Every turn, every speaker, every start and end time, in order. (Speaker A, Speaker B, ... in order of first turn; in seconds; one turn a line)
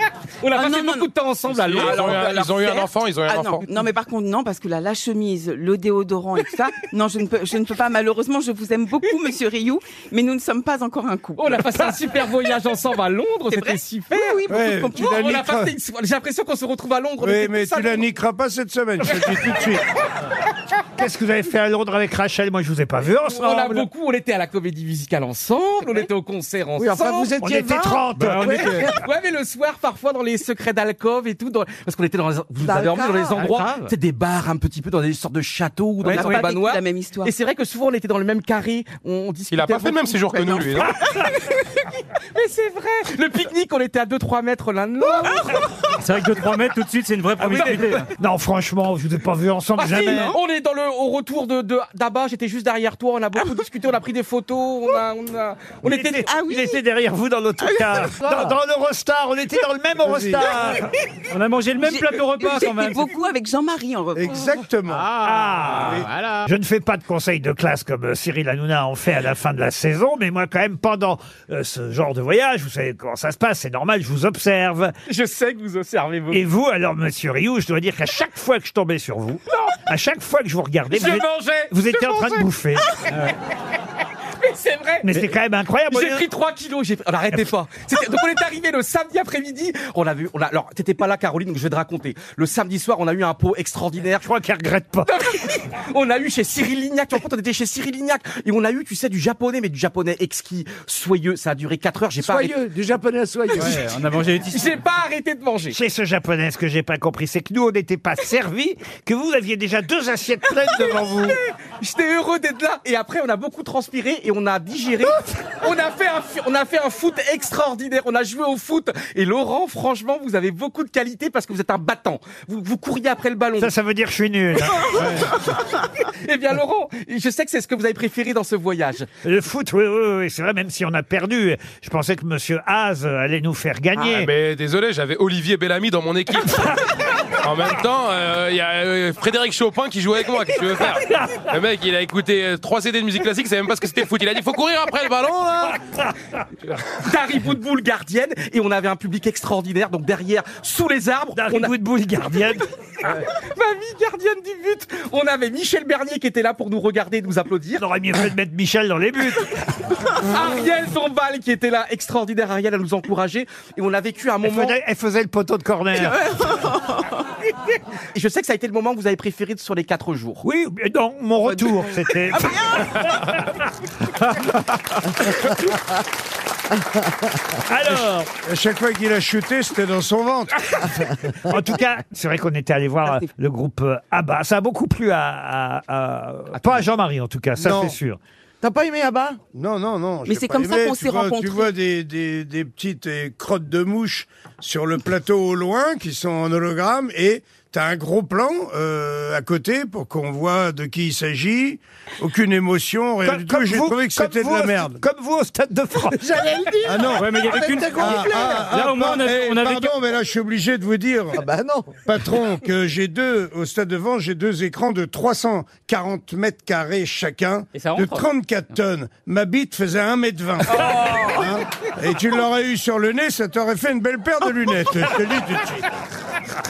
Speaker A: 0.4-2.5
Speaker B: 0.5-1.1
Speaker C: 1.5-3.7
Speaker B: 2.1-11.5
Speaker A: 11.3-18.0
Speaker B: 13.5-15.2
Speaker D: 14.5-15.7
Speaker D: 17.2-19.8
Speaker A: 19.0-19.7
Speaker E: 20.9-23.9
Speaker A: 23.2-27.3
Speaker F: 26.8-29.0
Speaker E: 27.4-28.8
Speaker G: 28.2-28.9
Speaker A: 28.5-45.7
Speaker F: 32.6-33.5
Speaker G: 33.3-33.9
Speaker G: 36.0-36.4
Speaker B: 36.1-37.3
Speaker C: 39.5-41.0
Speaker B: 40.5-41.3
Speaker B: 45.5-45.7
Speaker G: 46.0-48.0
Speaker A: 47.4-48.0
Speaker E: 47.9-50.4
Speaker A: 49.8-56.3
Speaker B: 49.8-50.4
Speaker E: 55.8-60.9
Speaker B: 56.2-56.8
Speaker B: 57.6-58.2
Speaker F: 58.3-58.5
Speaker D: 60.0-60.5
Speaker G: 61.3-63.1
Speaker B: 61.8-64.6
Speaker D: 64.1-65.1
Speaker G: 64.9-66.5
Speaker E: 65.2-74.9
Speaker D: 65.7-66.1
Speaker A: 75.1-76.4
Speaker E: 76.3-82.9
Speaker A: 80.9-82.5
Speaker G: 83.0-83.3
Speaker A: 84.4-85.1
Speaker E: 85.0-86.3
Speaker A: 85.9-94.3
Speaker E: 94.2-95.1
Speaker A: 95.0-102.5
Speaker F: 102.2-103.8
Speaker G: 103.6-104.8
Speaker A: 104.5-105.8
Speaker E: 105.7-111.4
Speaker A: 111.8-123.7
Speaker E: 123.6-125.2
Speaker A: 124.6-129.1
Speaker E: 129.2-134.3
Speaker C: 134.1-136.7
Speaker C: 137.4-145.8
Speaker A: 146.9-151.7
Speaker E: 151.3-152.6
Speaker A: 153.0-157.8
Speaker E: 157.7-159.6
Speaker A: 160.1-164.8
Speaker E: 164.4-166.5
Speaker B: 165.9-167.2
Speaker A: 168.1-170.4
Speaker E: 170.4-173.6
Speaker B: 171.4-173.0
Speaker E: 174.2-174.6
Speaker E: 175.2-175.8
Speaker E: 177.6-178.3
Speaker D: 178.4-180.7
Speaker E: 181.1-188.2
Speaker D: 187.6-188.0
Speaker F: 188.6-189.4
Speaker D: 189.4-205.0
Speaker B: 190.2-191.7
Speaker E: 203.2-207.2
Speaker F: 206.1-208.8
Speaker D: 206.8-211.4
Speaker G: 207.0-209.9
Speaker F: 211.3-212.3
Speaker D: 212.0-225.9
Speaker G: 217.7-218.3